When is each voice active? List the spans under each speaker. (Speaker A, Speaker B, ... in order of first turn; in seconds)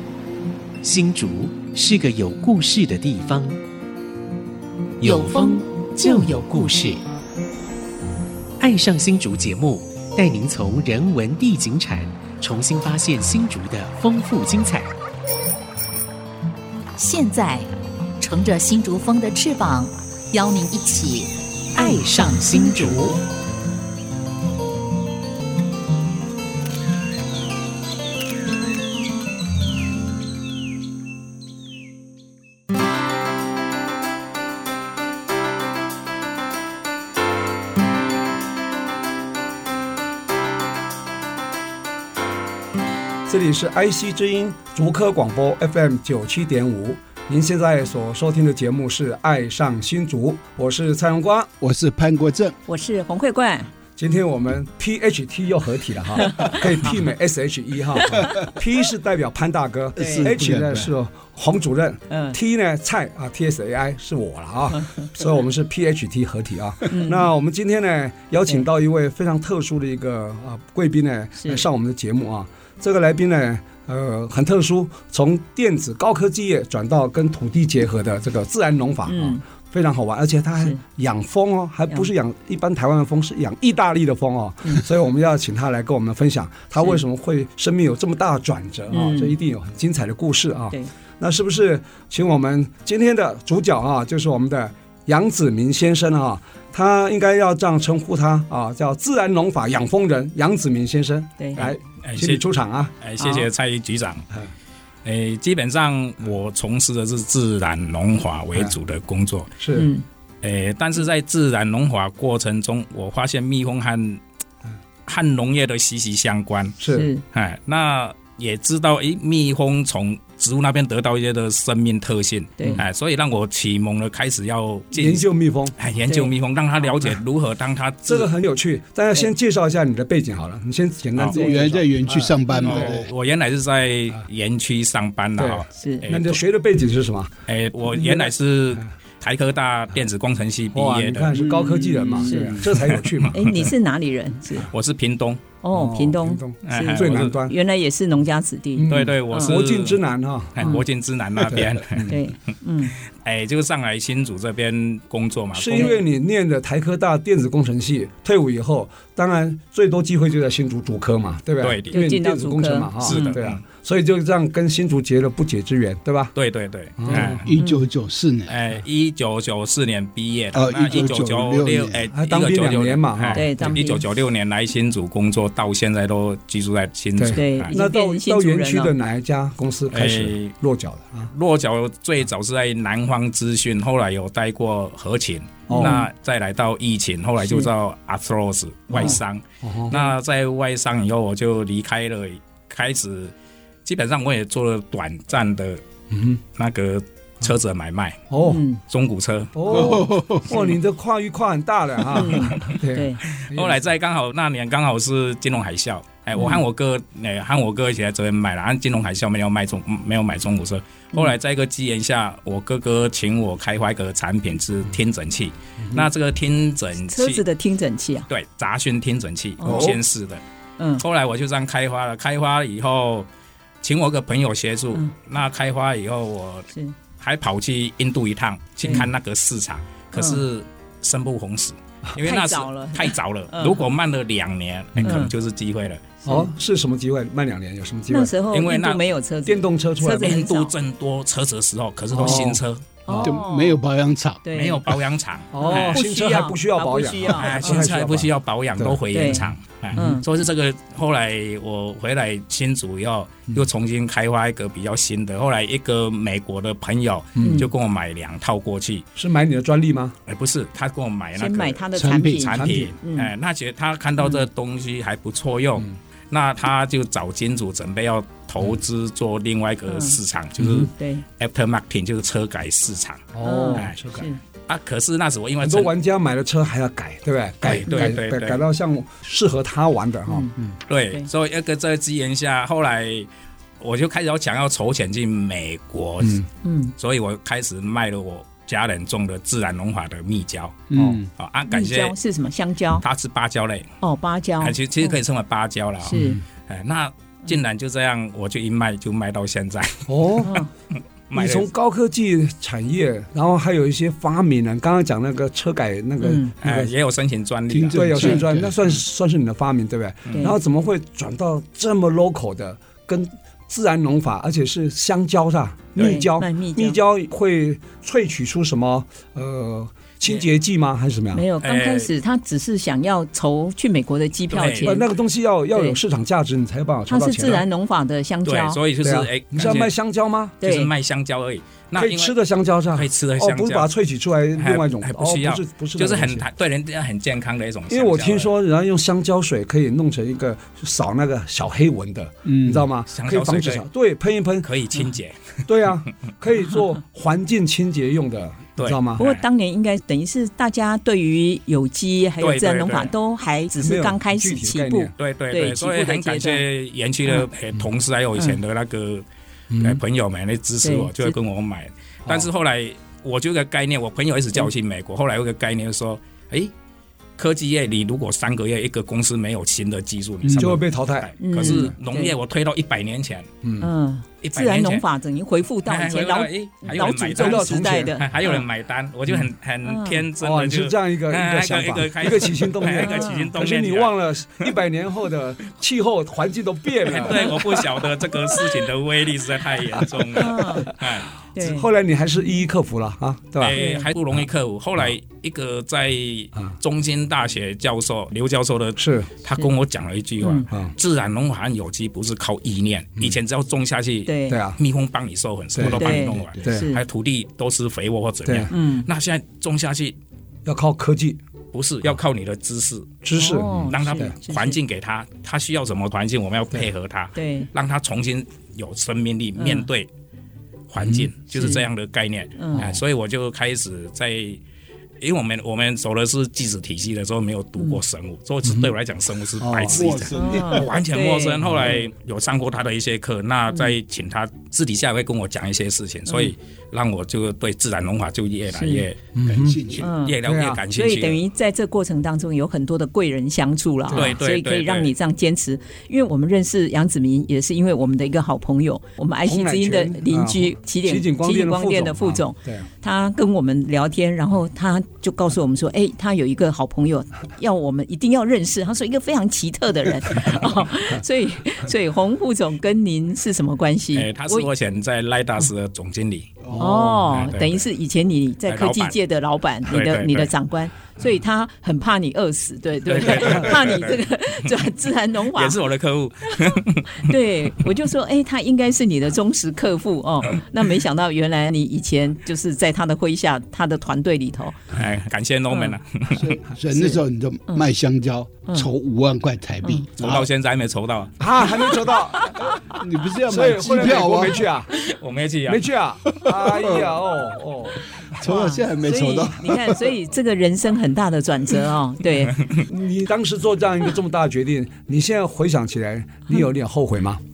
Speaker A: 0.8-3.6, 5.0-7.0, 8.6-14.9, 21.7-23.1
Speaker B: 5.0-6.9, 17.0-17.7, 18.2-23.2
Speaker C: 43.3-51.5, 54.0-102.9, 109.6-109.9, 116.8-117.1, 124.9-125.7, 128.1-132.8, 135.4-137.3, 137.9-138.8, 140.7-143.4, 145.7-147.5, 148.8-150.8, 151.5-152.2, 155.5-166.3, 167.0-167.4, 172.1-173.7, 177.2-181.3, 185.7-186.0, 188.9-190.1, 196.1-196.4, 198.3-198.6, 199.5-203.8, 236.2-238.3, 239.4-240.4, 242.1-243.3, 245.5-249.3, 257.4-257.6, 259.2-260.2, 262.5-262.9, 270.6-270.9, 273.3-274.3, 275.6-280.8, 290.9-291.2, 296.1-296.4, 300.1-300.5, 301.3-306.9, 307.9-321.4, 324.8-327.6, 329.0-330.6, 331.9-336.4, 337.9-344.7, 345.7-349.2, 353.8-355.1, 359.7-360.0, 370.5-371.9, 373.6-373.9, 376.9-378.2, 380.4-388.0, 389.9-393.8, 399.0-399.3, 400.7-400.9, 404.5-404.8, 405.7-406.9, 408.4-408.7, 410.6-411.4, 413.2-414.3, 421.0-421.3, 422.7-423.0, 429.6-430.2, 431.6-432.0, 439.3-439.8, 440.4-440.8, 444.1-444.3, 449.4-452.9, 466.7-467.3, 491.4-492.5, 493.5-495.0, 495.7-498.0, 502.9-507.4
Speaker D: 51.6-52.5, 60.0-60.9, 131.3-133.1, 141.3-142.6, 167.1-168.5, 170.5-172.0, 199.7-200.5, 243.2-244.4, 261.9-262.5, 290.9-291.3, 307.7-308.7, 342.4-342.9, 429.8-431.0, 439.4-440.1, 486.3-490.5, 492.9-494.6, 496.4-497.1, 498.2-500.1
Speaker E: 52.6-53.7, 56.2-56.6, 60.0-60.4, 62.1-62.4, 64.7-65.0, 66.9-67.3, 71.4-71.6, 79.1-79.4, 88.9-89.3, 101.4-101.6, 103.2-103.5, 109.7-110.0, 116.9-117.2, 126.1-126.3, 131.4-131.7, 132.5-132.8, 135.8-136.1, 141.4-142.7, 143.3-144.7, 145.6-149.6, 152.0-152.9, 155.7-156.0, 161.9-163.4, 167.6-167.8, 173.3-174.0, 177.3-178.9, 185.7-186.1, 187.4-187.7, 198.4-198.8, 202.1-203.2, 217.1-218.3, 219.6-220.0, 230.1-230.4, 232.2-233.8, 235.0-235.3, 238.1-240.7, 242.2-242.4, 243.1-243.8, 244.4-244.8, 245.6-247.9, 249.1-250.2, 257.4-257.7, 261.4-263.3, 269.9-270.2, 270.9-271.2, 273.4-274.4, 277.9-278.2, 280.3-280.5, 286.6-286.9, 291.7-293.0, 294.0-295.2, 296.0-296.4, 300.4-300.7, 306.2-306.5, 315.9-317.0, 321.3-325.1, 325.7-326.0, 327.1-328.8, 330.6-330.9, 349.2-356.6, 360.8-361.3, 371.4-372.3, 373.8-378.6, 379.8-380.2, 383.0-383.5, 390.4-390.9, 391.6-391.9, 393.7-394.1, 400.4-400.7, 404.2-404.6, 405.9-407.0, 408.7-409.1, 413.3-414.8, 417.4-417.7, 419.6-419.9, 421.5-421.8, 422.6-422.9, 430.3-432.1, 436.3-436.5, 438.7-439.1, 440.0-464.7, 466.8-475.8, 476.5-484.8, 485.7-486.0, 486.9-487.9, 498.4-502.6
Speaker F: 101.6-102.4, 103.0-104.2, 105.0-109.5, 110.4-114.2, 115.1-116.8, 117.3-128.3, 132.6-136.4, 137.5-141.3, 142.7-143.7, 144.7-145.4, 146.6-147.4, 148.9-150.0, 150.5-152.2, 153.1-155.9, 161.6-162.0, 163.0-163.6, 166.3-167.5, 168.5-177.7, 179.9-180.5, 181.3-193.3, 193.8-195.8, 196.5-198.3, 198.9-200.0, 203.3-217.4, 218.3-220.4, 221.0-223.3, 223.8-236.1, 238.5-239.0, 240.2-242.8, 244.5-246.0, 247.3-259.1, 260.3-274.0, 274.7-275.9, 277.6-278.6, 280.9-283.3, 283.8-286.4, 287.0-292.1, 293.0-293.9, 294.6-300.4, 301.3-301.7, 306.6-308.7, 310.3-310.5, 315.9-316.2, 321.6-322.1, 324.5-325.0, 328.4-329.9, 330.6-332.3, 332.9-333.9, 334.6-338.5, 343.1-343.8, 344.6-345.6, 348.8-349.4, 352.4-353.1, 355.2-359.2, 359.8-366.7, 367.4-373.5, 374.4-375.0, 375.9-384.6, 387.0-391.3, 393.6-410.1, 411.7-413.2, 413.8-420.1, 420.9-424.6, 425.2-441.4, 444.1-445.1, 464.1-466.7, 467.3-467.8, 468.7-469.1, 469.9-470.5, 473.1-474.2, 475.5-477.3, 484.9-486.5, 490.2-491.4, 495.0-495.8